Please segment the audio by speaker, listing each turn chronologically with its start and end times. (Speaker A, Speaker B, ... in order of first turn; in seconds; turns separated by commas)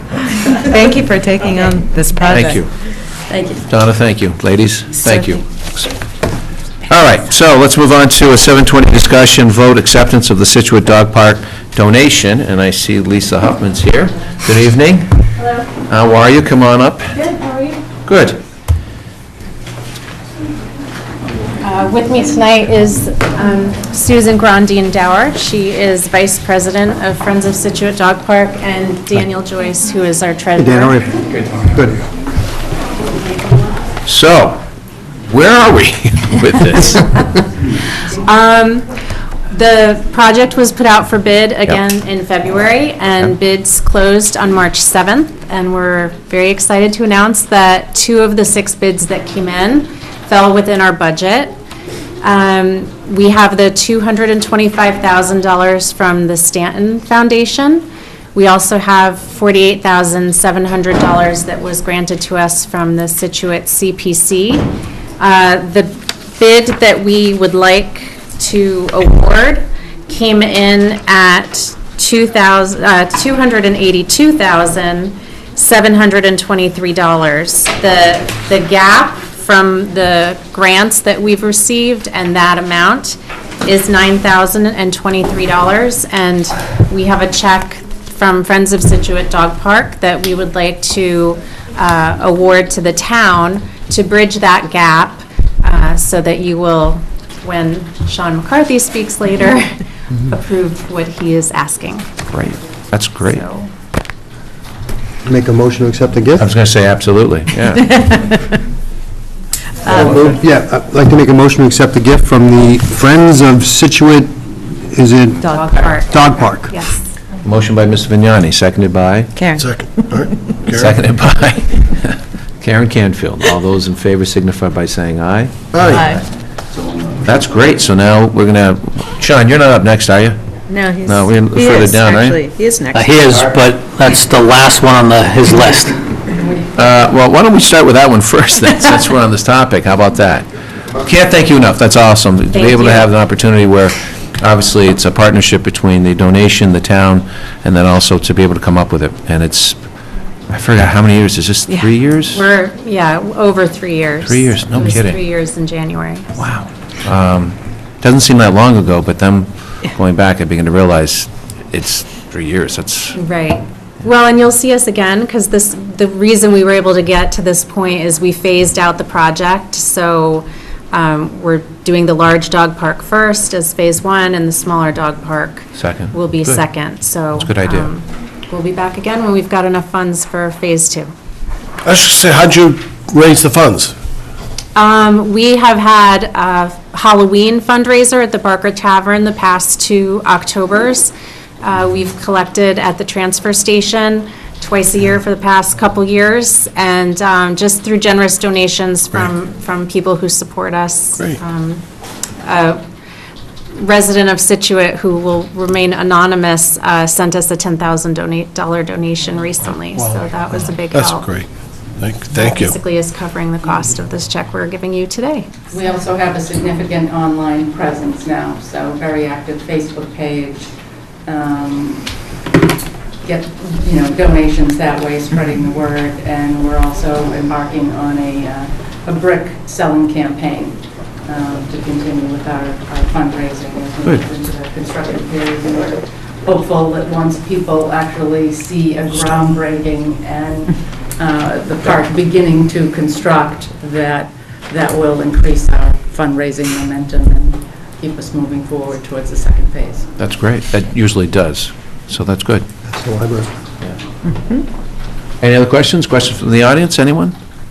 Speaker A: 0.4-2.6, Speaker B: 2.3-2.7, Speaker C: 3.3-3.6, Speaker B: 3.7-5.9, Speaker B: 6.9-15.2, Speaker B: 15.9-17.2, Speaker D: 17.1-17.8, Speaker B: 18.1-18.4, Speaker D: 21.6-31.1, Speaker E: 30.6-32.0, Speaker B: 34.0-34.6, Speaker B: 35.3-37.1, Speaker D: 38.1-38.9, Speaker D: 39.5-51.5, Speaker D: 52.2-64.7, Speaker D: 65.2-102.1, Speaker B: 102.3-103.4, Speaker D: 103.3-103.7, Speaker E: 105.2-106.5, Speaker B: 106.4-108.1, Speaker E: 109.8-116.8, Speaker D: 115.5-117.1, Speaker B: 117.4-119.3, Speaker A: 119.4-119.7, Speaker F: 119.6-121.0, Speaker B: 120.7-126.1, Speaker A: 125.9-126.2, Speaker B: 127.2-130.4, Speaker A: 130.7-133.2, Speaker B: 131.0-132.4, Speaker G: 132.9-136.0, Speaker C: 136.2-136.9, Speaker B: 136.8-140.5, Speaker B: 141.0-149.8, Speaker D: 142.5-143.1, Speaker B: 150.5-152.4, Speaker D: 152.3-156.4, Speaker B: 154.2-155.2, Speaker B: 156.4-163.2, Speaker D: 163.2-181.1, Speaker B: 175.8-176.6, Speaker B: 177.4-177.9, Speaker F: 181.8-183.9, Speaker D: 184.8-201.8, Speaker D: 202.4-202.8, Speaker D: 203.8-211.3, Speaker F: 210.9-211.5, Speaker F: 212.0-212.8, Speaker D: 212.3-215.7, Speaker C: 215.7-220.7, Speaker C: 221.3-222.1, Speaker C: 223.2-250.1, Speaker B: 250.2-252.7, Speaker E: 252.9-253.5, Speaker A: 254.3-254.6, Speaker B: 255.4-257.4